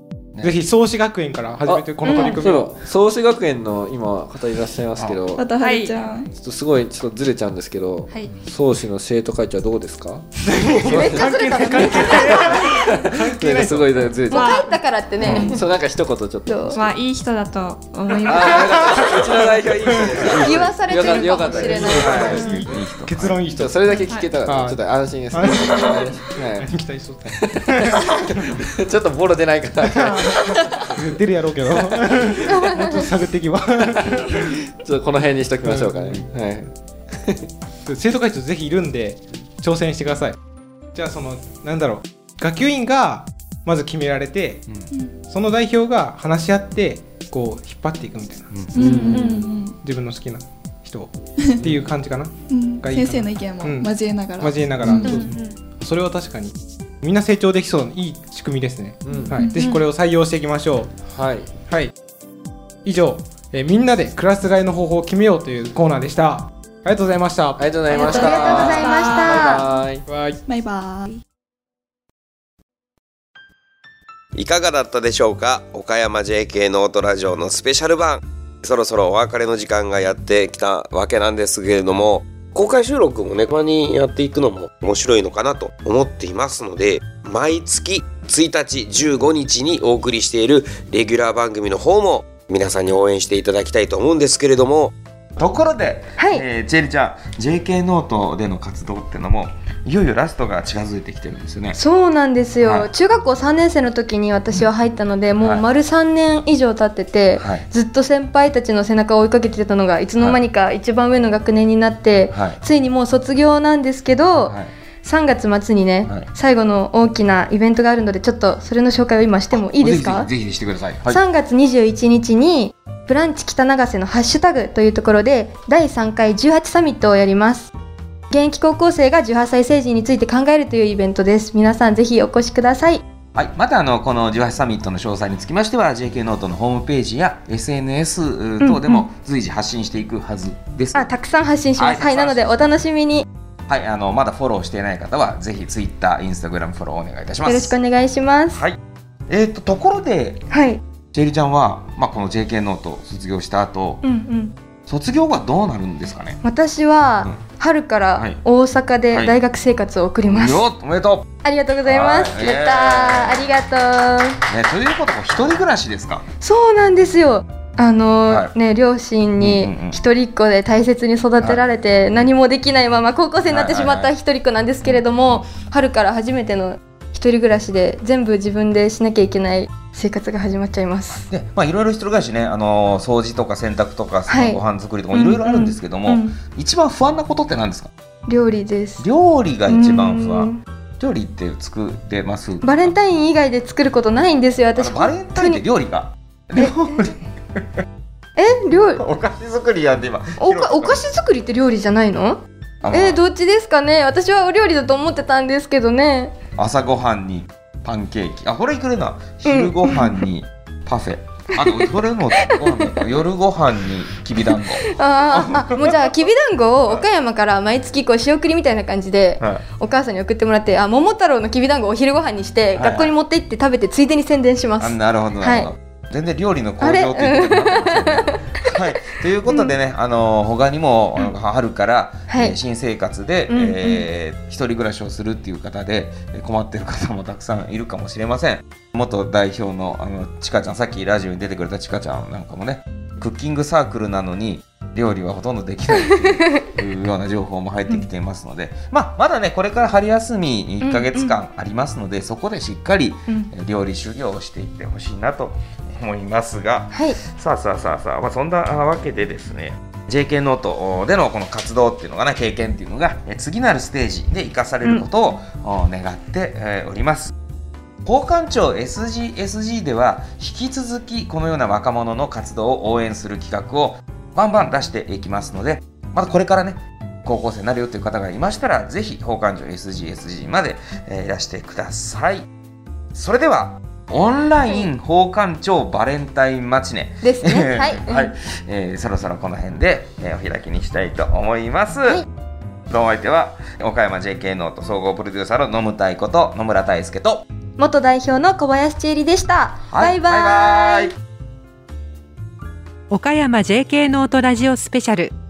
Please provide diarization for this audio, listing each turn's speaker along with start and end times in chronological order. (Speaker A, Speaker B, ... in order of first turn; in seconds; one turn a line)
Speaker A: 0.4-2.7
Speaker B: 1.6-5.5
Speaker C: 2.0-2.4
Speaker D: 5.3-6.3
Speaker E: 5.6-6.1
Speaker B: 6.3-11.3
Speaker E: 8.1-8.3
Speaker A: 10.4-14.1
Speaker C: 10.8-12.7
Speaker B: 11.8-14.6
Speaker E: 14.3-14.8
Speaker C: 14.3-15.7
Speaker B: 15.2-16.9
Speaker A: 15.2-15.5
Speaker C: 16.5-16.8
Speaker E: 16.7-19.1
Speaker B: 18.2-22.5
Speaker C: 20.4-22.5
Speaker A: 21.5-24.8
Speaker F: 21.6-23.5
Speaker B: 23.5-26.8
Speaker E: 24.1-24.3
Speaker A: 25.3-28.2
Speaker B: 27.3-31.2
Speaker A: 29.8-34.5
Speaker B: 31.8-32.1
Speaker C: 32.5-33.0
Speaker B: 34.0-37.5
Speaker A: 35.6-36.2
Speaker A: 37.9-40.4
Speaker A: 40.9-44.6
Speaker A: 45.3-49.3
Speaker D: 48.7-49.7
Speaker B: 48.8-49.5
Speaker C: 49.0-49.5
Speaker A: 49.8-60.9
Speaker B: 51.6-51.9
Speaker D: 52.5-55.3
Speaker C: 55.0-55.3
Speaker E: 55.2-55.5
Speaker B: 59.0-59.4
Speaker D: 59.2-59.8
Speaker B: 61.1-61.5
Speaker A: 61.6-61.9
Speaker A: 62.8-68.7
Speaker B: 67.6-70.0
Speaker E: 67.9-69.5
Speaker C: 68.0-69.6
Speaker A: 70.1-70.4
Speaker D: 70.5-71.2
Speaker G: 74.3-94.9
Speaker F: 95.4-101.8
Speaker C: 96.2-96.4
Speaker C: 101.8-120.3
Speaker F: 102.6-102.9
Speaker F: 105.4-105.7
Speaker F: 107.3-107.7
Speaker F: 112.3-112.6
Speaker F: 114.5-114.7
Speaker F: 119.5-121.2
Speaker C: 121.1-127.7
Speaker C: 128.3-133.0
Speaker F: 133.3-141.1
Speaker C: 138.6-139.1
Speaker C: 140.9-143.3
Speaker F: 141.8-142.7
Speaker F: 143.7-147.7
Speaker C: 147.4-148.6
Speaker F: 148.5-150.5
Speaker C: 150.5-150.8
Speaker F: 151.1-154.0
Speaker C: 154.0-154.5
Speaker F: 154.9-156.4
Speaker C: 156.4-160.6
Speaker F: 158.2-158.4
Speaker F: 159.1-159.4
Speaker F: 160.3-161.3
Speaker C: 161.4-164.4
Speaker F: 161.8-163.5
Speaker F: 164.5-166.2
Speaker C: 166.4-181.3
Speaker F: 168.2-168.5
Speaker F: 169.4-170.0
Speaker F: 173.4-174.1
Speaker F: 181.3-187.9
Speaker C: 184.3-184.6
Speaker C: 185.1-186.3
Speaker C: 188.3-189.1
Speaker F: 189.0-192.9
Speaker C: 189.7-190.6
Speaker C: 192.6-195.6
Speaker F: 194.8-197.1
Speaker C: 198.3-199.0
Speaker F: 199.0-201.0
Speaker C: 200.4-206.4
Speaker F: 202.8-203.2
Speaker F: 206.6-216.0
Speaker C: 209.4-210.2
Speaker C: 211.5-213.2
Speaker C: 214.5-225.7
Speaker F: 219.4-219.6
Speaker F: 222.7-223.1
Speaker F: 224.8-267.3
Speaker C: 226.8-228.6
Speaker C: 229.4-229.7
Speaker C: 232.3-232.5
Speaker C: 233.5-234.1
Speaker C: 250.8-251.4
Speaker C: 256.9-257.2
Speaker F: 268.0-282.5
Speaker F: 283.1-292.2
Speaker C: 287.2-288.3
Speaker F: 292.9-297.4
Speaker C: 297.8-301.1
Speaker F: 299.9-301.1
Speaker H: 303.1-305.3